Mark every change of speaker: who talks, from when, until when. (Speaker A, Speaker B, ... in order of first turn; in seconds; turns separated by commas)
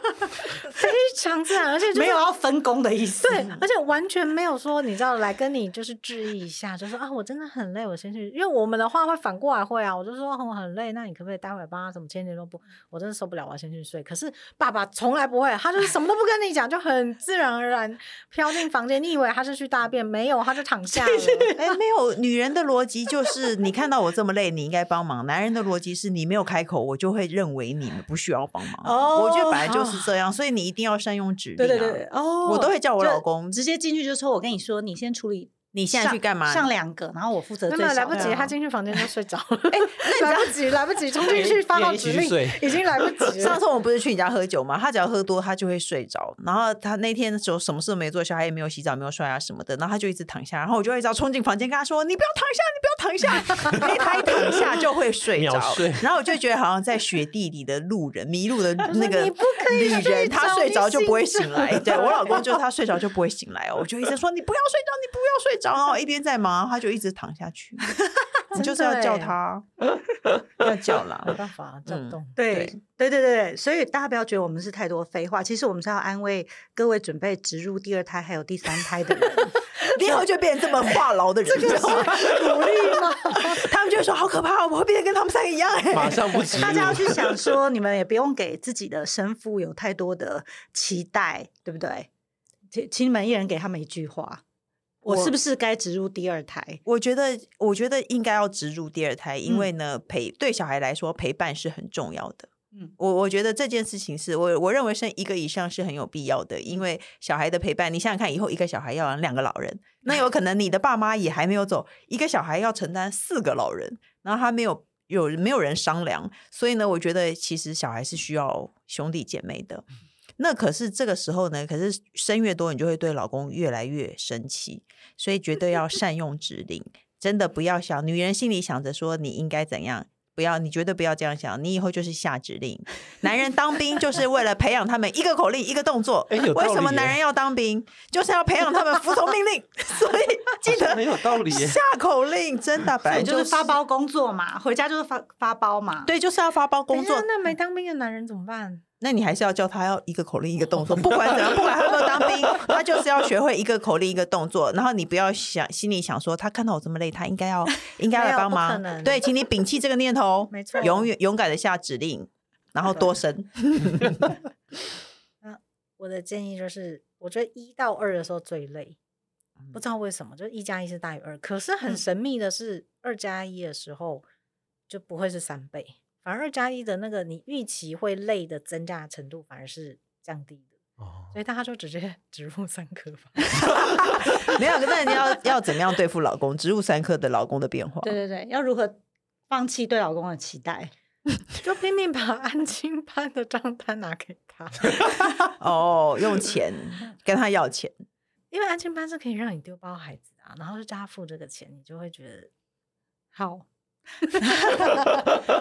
Speaker A: 0.6-2.3, Speaker B: 1.9-3.6, Speaker A: 3.2-21.8, Speaker B: 20.9-21.6, Speaker C: 21.6-33.6, Speaker B: 28.8-29.8, Speaker A: 29.7-30.1, Speaker B: 31.6-38.5, Speaker C: 35.7-36.7, Speaker A: 37.7-43.6, Speaker C: 38.1-38.4, Speaker C: 39.7-40.6, Speaker D: 41.2-43.3, Speaker C: 43.4-67.9, Speaker D: 55.3-56.1, Speaker A: 58.9-62.5, Speaker C: 68.5-69.7, Speaker A: 68.5-69.3, Speaker C: 70.6-72.7, Speaker A: 71.3-72.4, Speaker B: 72.3-80.2, Speaker C: 79.9-82.7, Speaker A: 81.5-83.6, Speaker B: 81.5-82.5, Speaker C: 83.5-86.8, Speaker D: 85.9-87.4, Speaker B: 86.5-92.1, Speaker B: 92.7-94.4, Speaker B: 95.0-96.8, Speaker C: 95.0-95.3, Speaker C: 96.8-119.8, Speaker C: 120.4-143.8, Speaker D: 136.3-137.2, Speaker D: 140.6-141.8, Speaker B: 143.1-146.1, Speaker C: 146.1-147.3, Speaker A: 146.9-148.8, Speaker C: 149.0-164.4, Speaker A: 158.1-159.2, Speaker A: 160.5-161.1, Speaker A: 165.4-169.0, Speaker A: 169.7-174.2, Speaker A: 174.9-180.7, Speaker D: 181.0-181.3, Speaker A: 181.3-183.6, Speaker C: 183.6-188.2, Speaker B: 188.0-190.9, Speaker A: 191.6-195.1, Speaker C: 195.4-197.9, Speaker A: 198.5-202.5, Speaker B: 203.3-203.7, Speaker B: 204.2-205.1